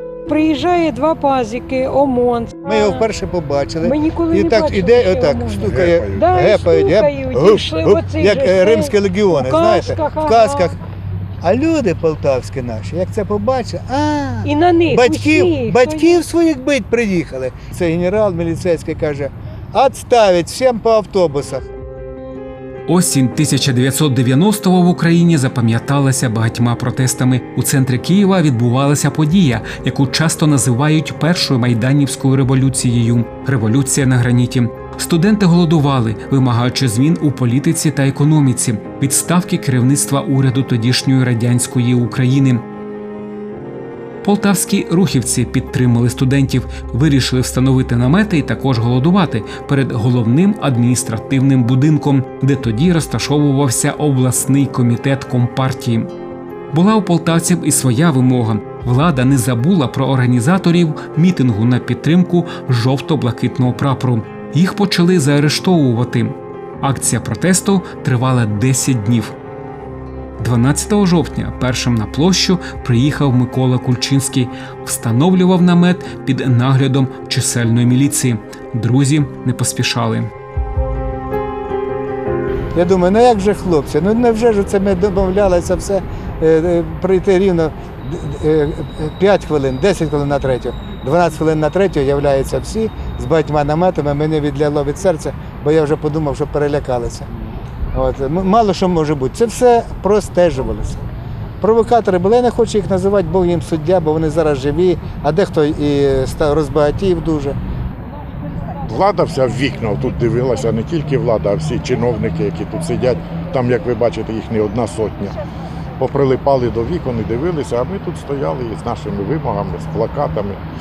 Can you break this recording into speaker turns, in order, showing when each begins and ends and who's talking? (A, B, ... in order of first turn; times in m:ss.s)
0:00.3-0:03.0 A
0:02.6-0:10.8 B
0:03.8-0:10.7 A
0:11.4-0:21.7 B
0:14.4-0:16.2 A
0:22.9-0:42.6 C
0:44.2-0:56.1 C
0:56.7-1:09.4 C
1:10.4-1:20.3 C
1:22.7-1:37.3 B
1:37.9-1:41.0 B
1:41.6-1:47.6 B
1:48.9-1:55.3 D
1:56.0-2:00.6 D